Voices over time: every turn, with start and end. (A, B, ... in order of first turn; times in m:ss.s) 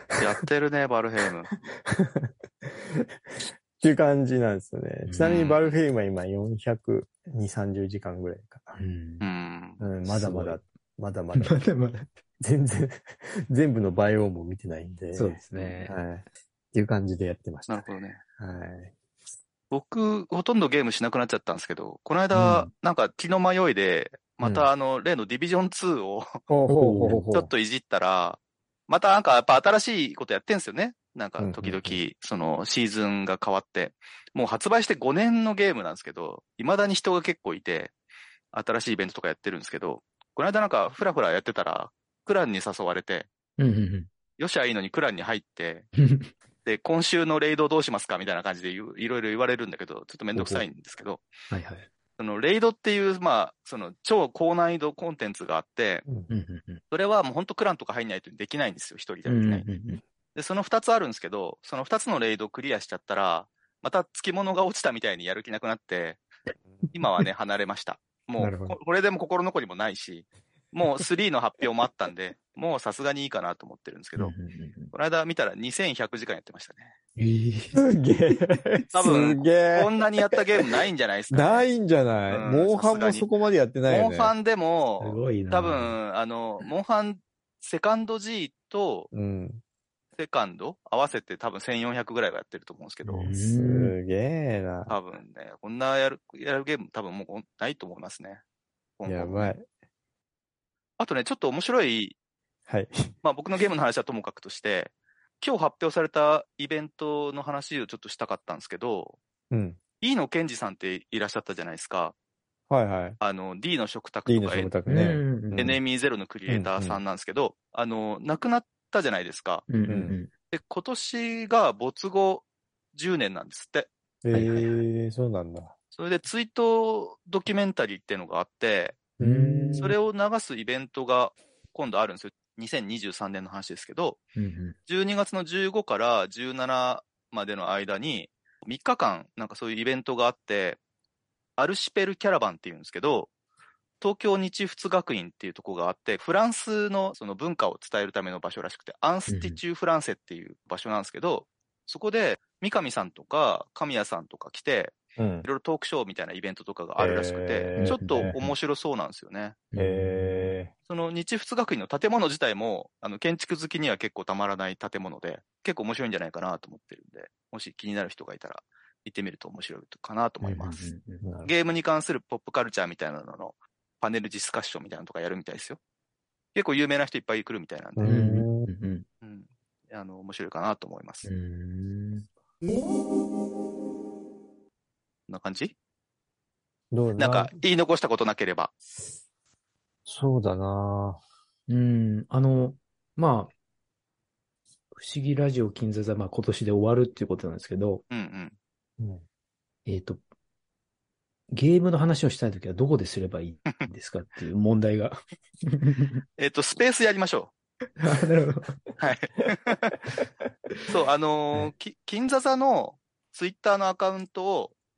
0:00.2-0:01.5 A
0:01.9-0:03.0 B
0:03.8-0:08.8 B
0:05.0-0:05.3 C
0:05.2-0:05.8 A
0:08.8-0:09.2 C
0:09.2-0:09.8 A
0:09.8-0:11.6 B
0:10.0-0:10.6 C
0:11.3-0:12.1 C
0:12.4-0:18.9 B
0:15.1-0:16.0 C
0:17.7-0:18.2 A
0:19.7-0:26.4 A
0:22.3-0:22.7 C
0:24.4-0:24.7 B
0:26.5-0:27.5 B
0:26.7-0:27.2 C
0:27.3-0:37.9 A
0:31.4-0:32.0 B
0:38.5-0:43.3 A
0:43.6-0:44.1 C
0:44.4-0:45.9 A
0:46.0-0:46.3 C
0:46.6-0:51.3 A
0:50.4-0:50.6 C
0:51.5-0:51.9 C
0:52.2-0:56.1 A
0:56.3-0:56.8 C
0:56.9-0:59.7 A
0:59.3-1:00.0 C
1:00.4-1:06.2 A
1:06.9-1:14.4 A
1:08.4-1:08.8 C
1:14.2-1:14.9 C
1:14.9-1:17.0 A
1:17.2-1:17.8 C
1:17.8-1:19.9 B
1:18.9-1:21.7 A
1:20.6-1:24.3 B
1:22.3-1:23.3 A
1:23.9-1:29.1 A
1:25.0-1:26.0 C
1:29.1-1:29.6 B
1:30.2-1:33.4 A
1:33.0-1:34.0 C
1:33.5-1:35.0 B
1:34.9-1:38.4 A
1:39.0-1:39.5 A
1:39.1-1:39.7 B
1:41.0-1:42.2 A
1:42.7-1:43.2 B
1:43.2-1:49.2 A
1:49.5-1:49.8 B
1:50.0-1:52.2 A
1:52.7-1:53.2 B
1:53.2-1:54.7 A
1:54.3-1:55.8 B
1:54.9-1:55.7 C
1:55.6-1:59.7 A
1:56.5-1:57.0 B
1:59.7-2:00.3 C
1:59.9-2:00.2 B
2:00.5-2:03.9 A
2:04.2-2:05.8 B
2:04.3-2:04.7 C
2:05.9-2:09.0 A
2:09.2-2:10.0 B
2:09.2-2:10.0 C
2:09.8-2:14.2 A
2:14.4-2:14.8 C
2:14.9-2:20.8 A
2:21.6-2:23.3 A
2:24.0-2:39.6 A
2:29.3-2:29.6 C
2:35.2-2:35.5 B
2:37.0-2:38.4 B
2:37.8-2:38.4 C
2:39.7-2:40.6 C
2:39.8-2:40.7 B
2:40.9-2:50.9 A
2:50.4-2:51.2 C
2:51.2-2:51.5 B
2:51.4-2:55.8 A
2:56.5-2:58.1 A
2:58.0-2:58.7 B
2:58.0-2:59.0 C
2:59.2-3:01.3 A
3:01.2-3:02.3 C
3:05.3-3:05.7 A
3:06.9-3:07.5 B
3:07.2-3:08.7 A
3:10.1-3:11.2 B
3:11.7-3:13.5 C
3:15.0-3:18.0 C
3:18.1-3:18.6 A
3:19.9-3:20.2 C
3:21.5-3:26.2 C
3:26.4-3:27.5 A
3:28.0-3:28.8 C
3:29.0-3:30.0 A
3:30.9-3:34.7 A